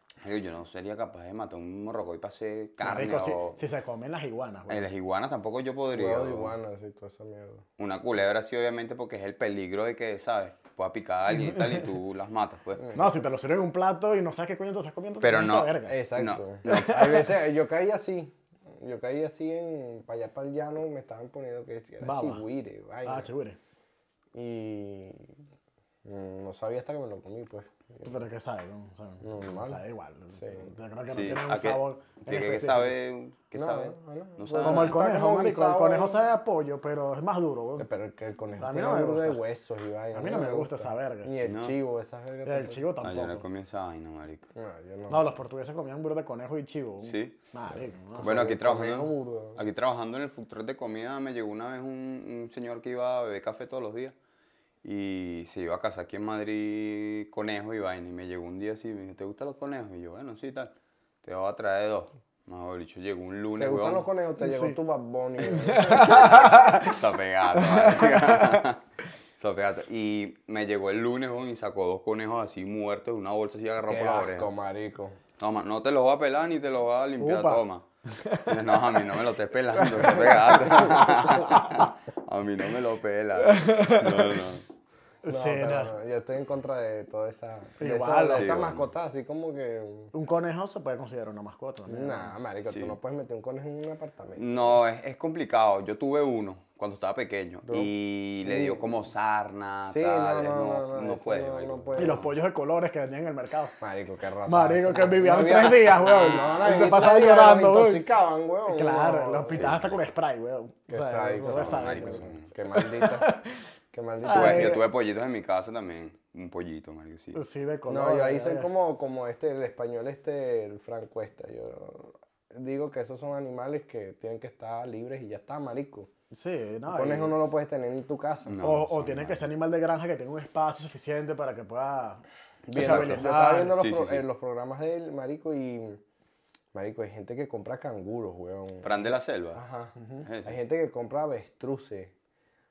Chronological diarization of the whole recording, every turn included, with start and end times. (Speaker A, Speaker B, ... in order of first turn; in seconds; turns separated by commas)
Speaker A: 0.2-3.6, Speaker B: 2.8-4.9, Speaker A: 4.7-6.5, Speaker C: 5.9-7.6, Speaker A: 7.8-13.0, Speaker B: 11.3-11.9, Speaker C: 12.8-13.1, Speaker B: 12.9-16.0, Speaker A: 15.2-17.2, Speaker C: 15.9-23.3, Speaker B: 16.7-17.3, Speaker B: 22.0-22.4, Speaker B: 23.1-23.6, Speaker C: 24.3-25.4, Speaker C: 26.1-28.1, Speaker B: 28.0-32.9, Speaker C: 29.2-29.8, Speaker C: 30.4-30.7, Speaker A: 31.1-35.0, Speaker C: 33.6-36.2, Speaker B: 34.6-37.9, Speaker C: 37.8-42.8, Speaker B: 38.6-39.4, Speaker B: 40.1-41.3, Speaker A: 41.4-41.7, Speaker B: 42.5-43.4, Speaker A: 43.0-44.5, Speaker C: 44.5-45.3, Speaker B: 45.1-48.3, Speaker A: 47.0-47.4, Speaker C: 48.1-49.6, Speaker A: 48.1-54.1, Speaker A: 54.8-64.1, Speaker C: 63.6-66.5, Speaker B: 64.4-64.8, Speaker B: 65.4-67.0, Speaker A: 65.9-68.8, Speaker B: 67.5-68.6, Speaker A: 69.4-74.5, Speaker C: 73.9-75.2, Speaker A: 75.4-84.6, Speaker B: 77.2-79.2, Speaker B: 79.8-81.9, Speaker C: 80.3-81.2, Speaker B: 83.4-84.4, Speaker B: 85.2-85.9, Speaker C: 85.3-90.1, Speaker B: 87.8-88.6, Speaker A: 88.4-88.9, Speaker B: 90.1-92.3, Speaker C: 91.9-94.8, Speaker A: 92.7-93.0, Speaker A: 94.4-102.2, Speaker C: 97.6-97.9, Speaker C: 98.4-98.9, Speaker C: 99.9-102.3, Speaker B: 102.0-103.8, Speaker C: 103.8-109.8, Speaker B: 104.5-108.1, Speaker A: 105.8-107.0, Speaker B: 108.7-113.6, Speaker A: 109.5-110.1, Speaker C: 110.9-113.3, Speaker A: 111.4-112.5, Speaker C: 113.9-114.8, Speaker B: 114.2-114.8, Speaker A: 114.3-117.4, Speaker B: 117.3-118.7, Speaker C: 117.9-126.1, Speaker B: 126.3-127.3, Speaker C: 126.9-128.7, Speaker A: 128.4-129.4, Speaker B: 128.6-133.8, Speaker C: 132.7-136.0, Speaker A: 132.7-133.2, Speaker A: 133.8-134.2, Speaker C: 136.7-139.0, Speaker A: 138.8-139.6, Speaker C: 139.5-142.1, Speaker B: 139.9-140.2, Speaker A: 140.2-140.6